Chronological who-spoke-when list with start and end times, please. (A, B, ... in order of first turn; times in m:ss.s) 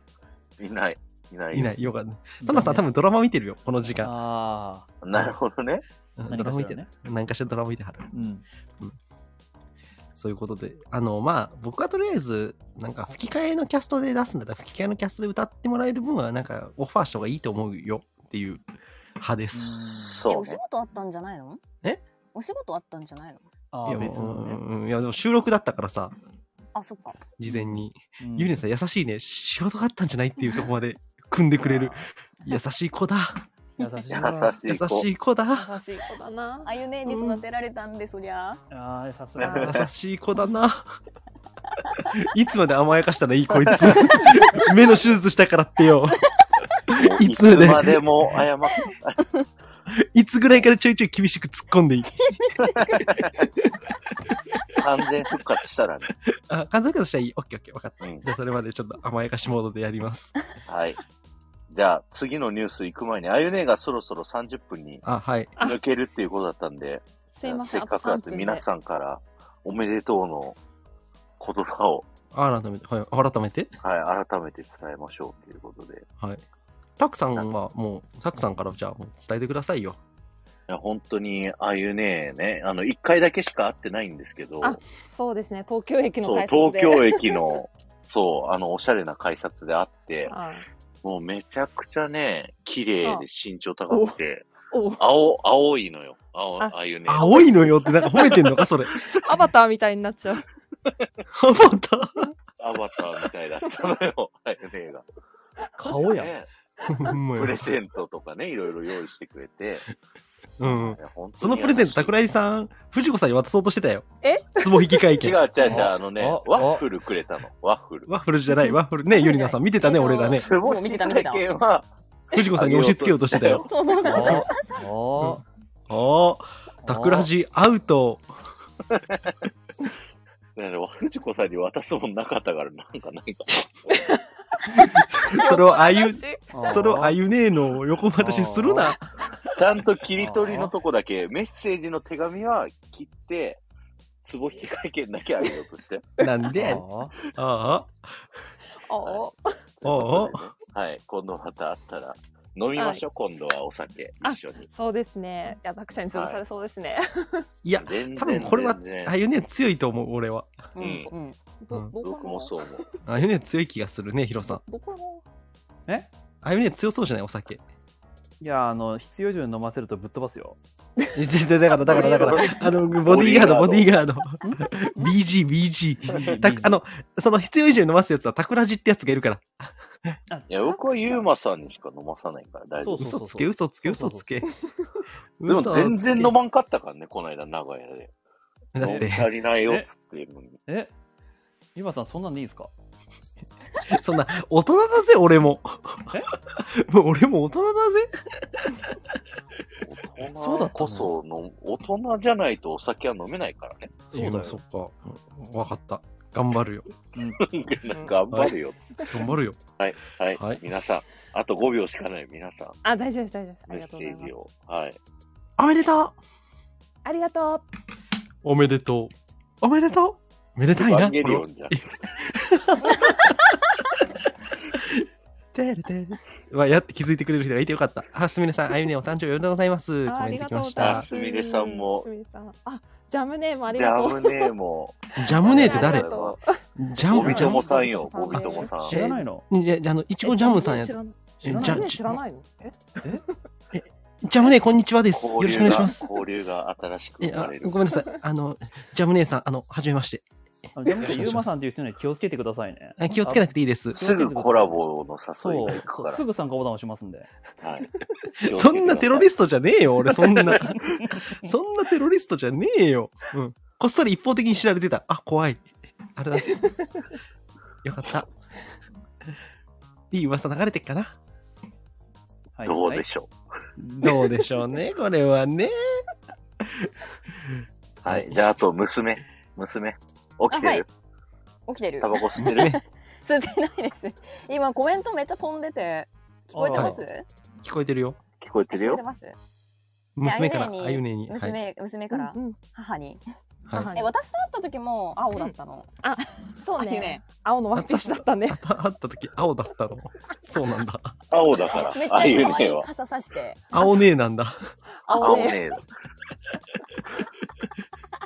0:00.6-0:01.7 A
0:01.5-0:04.1 B
0:02.4-0:02.9 C
0:04.0-0:04.9 C
0:05.0-0:05.8 A
0:06.2-0:08.1 B
0:06.3-0:06.9 C
0:08.1-0:08.4 C
0:10.2-0:18.6 B
0:19.2-0:20.0 B
0:19.5-0:20.2 C
0:20.0-0:20.6 A
0:20.3-0:21.6 D
0:22.3-0:23.4 D
0:23.7-0:24.6 C
0:23.8-0:26.1 B
0:26.7-0:27.2 D
0:27.4-0:33.4 B
0:27.4-0:28.6 C
0:31.6-0:32.0 C
0:33.8-0:34.6 C
0:34.1-0:35.1 A
0:34.6-0:35.7 B
0:35.5-0:36.7 E
0:36.6-0:38.6 D
0:37.1-0:37.4 B
0:38.7-0:39.8 C
0:39.4-0:39.7 A
0:39.4-0:39.7 E
0:39.6-0:40.9 B
0:42.1-0:46.2 B
0:46.9-0:48.0 B
0:46.9-0:49.3 A
0:49.9-0:52.4 B
0:52.4-0:53.0 D
0:52.6-0:53.5 A
0:54.7-0:56.1 A
0:56.5-1:00.3 B
1:00.7-1:01.0 A
1:01.7-1:05.0 A
1:05.0-1:05.5 B
1:05.6-1:10.6 A
1:07.3-1:08.6 E
1:11.4-1:12.1 A
1:12.3-1:13.7 B
1:13.8-1:16.0 A
1:17.0-1:20.0 B
1:20.7-1:24.8 A
1:24.6-1:27.6 E
1:26.2-1:30.3 A
1:30.3-1:30.6 E
1:31.0-1:34.5 A
1:33.9-1:34.2 E
1:34.7-1:35.0 E
1:35.0-1:38.2 A
1:36.6-1:38.5 E
1:37.1-1:38.9 B
1:39.0-1:40.4 E
1:41.3-1:42.3 B
1:42.6-1:45.0 A
1:45.8-1:46.3 C
1:45.9-1:46.5 A
1:46.9-1:47.7 B
1:47.3-1:49.8 A
1:50.6-1:55.4 B
1:50.8-1:52.2 A
1:54.2-1:55.1 E
1:55.1-1:58.1 A
1:55.6-1:56.8 C
1:58.1-2:00.5 B
1:59.2-2:01.4 D
2:00.3-2:01.9 A
2:02.3-2:03.6 B
2:02.5-2:04.4 A
2:03.4-2:04.8 D
2:04.0-2:05.4 C
2:05.2-2:08.2 B
2:06.8-2:07.3 C
2:08.9-2:09.3 A
2:10.6-2:13.7 A
2:14.7-2:16.9 E
2:14.8-2:19.0 B
2:16.5-2:17.2 C
2:18.2-2:19.0 C
2:19.5-2:23.6 A
2:20.2-2:20.7 C
2:24.2-2:26.1 A
2:26.2-2:28.2 B
2:26.5-2:27.1 C
2:28.8-2:29.5 E
2:29.0-2:29.3 A
2:29.8-2:34.7 A
2:29.8-2:30.4 B
2:32.8-2:33.0 E
2:34.2-2:37.5 E
2:36.1-2:36.4 A
2:37.6-2:40.7 B
2:37.8-2:39.1 A
2:40.8-2:41.4 D
2:40.8-2:41.1 A
2:41.6-2:42.5 E
2:42.0-2:42.9 A
2:43.0-2:44.6 B
2:44.5-2:45.2 E
2:46.4-2:47.6 B
2:48.4-2:50.6 C
2:51.1-3:00.2 B
2:51.8-2:53.9 A
2:51.9-2:52.3 E
2:54.4-2:55.0 C
2:56.0-2:56.8 C
3:00.3-3:01.2 C
3:00.5-3:03.1 A
3:02.8-3:04.2 C
3:03.0-3:04.5 B
3:05.4-3:06.3 B
3:05.5-3:08.1 A
3:08.7-3:09.3 B
3:08.8-3:10.6 A
3:08.8-3:09.9 C
3:10.7-3:10.9 C
3:11.7-3:12.7 C
3:13.8-3:18.9 B
3:19.8-3:24.0 A
3:20.4-3:20.8 C
3:20.8-3:21.1 B
3:24.1-3:24.6 C
3:24.1-3:26.9 B
3:27.1-3:27.4 C
3:27.4-3:28.8 A
3:29.1-3:29.6 B
3:29.8-3:32.8 A
3:30.3-3:30.6 B
3:32.8-3:34.3 E
3:33.7-3:35.0 A
3:35.6-3:36.1 B
3:37.0-3:37.6 E
3:38.4-3:43.4 B
3:40.7-3:41.8 A
3:44.8-3:51.1 B
3:50.0-3:54.5 E
3:50.8-3:52.1 A
3:53.7-3:56.4 A
3:55.2-3:56.1 B
3:55.2-3:56.6 E
3:56.8-3:57.8 B
3:57.1-3:59.0 A
3:57.1-3:58.8 E
3:58.3-4:02.1 B
3:58.8-3:59.5 C
4:00.2-4:03.2 E
4:01.4-4:01.9 C
4:03.7-4:06.1 B
4:05.1-4:07.8 A
4:07.2-4:10.2 B
4:10.8-4:14.8 C
4:10.9-4:11.5 B
4:13.0-4:14.0 B
4:13.9-4:16.2 A
4:15.4-4:17.3 C
4:17.6-4:19.3 A
4:18.4-4:25.6 B
4:20.5-4:20.9 C
4:26.2-4:26.7 B
4:27.8-4:28.3 B
4:30.1-4:31.1 B
4:32.6-4:33.0 C
4:32.6-4:33.3 A
4:33.8-4:35.7 B
4:36.6-4:36.9 B
4:37.4-4:38.4 B
4:38.0-4:40.9 A
4:40.5-4:40.8 D
4:41.7-4:47.2 D
4:42.0-4:42.8 A
4:42.4-4:42.8 B
4:46.5-4:47.0 C
4:46.7-4:47.0 B
4:47.6-4:48.2 B
4:48.4-4:49.0 A
4:48.7-4:49.4 D
4:50.2-4:51.6 B
4:50.2-4:53.2 D
4:52.1-4:52.6 E
4:53.7-4:54.1 E
4:53.9-4:56.0 D
4:55.3-4:58.6 E
4:56.8-4:57.2 D
4:57.7-5:01.2 B
5:01.3-5:02.9 A
5:01.6-5:03.6 D
5:03.7-5:04.6 B
5:05.1-5:05.6 E
5:05.1-5:05.8 A
5:05.1-5:05.6 D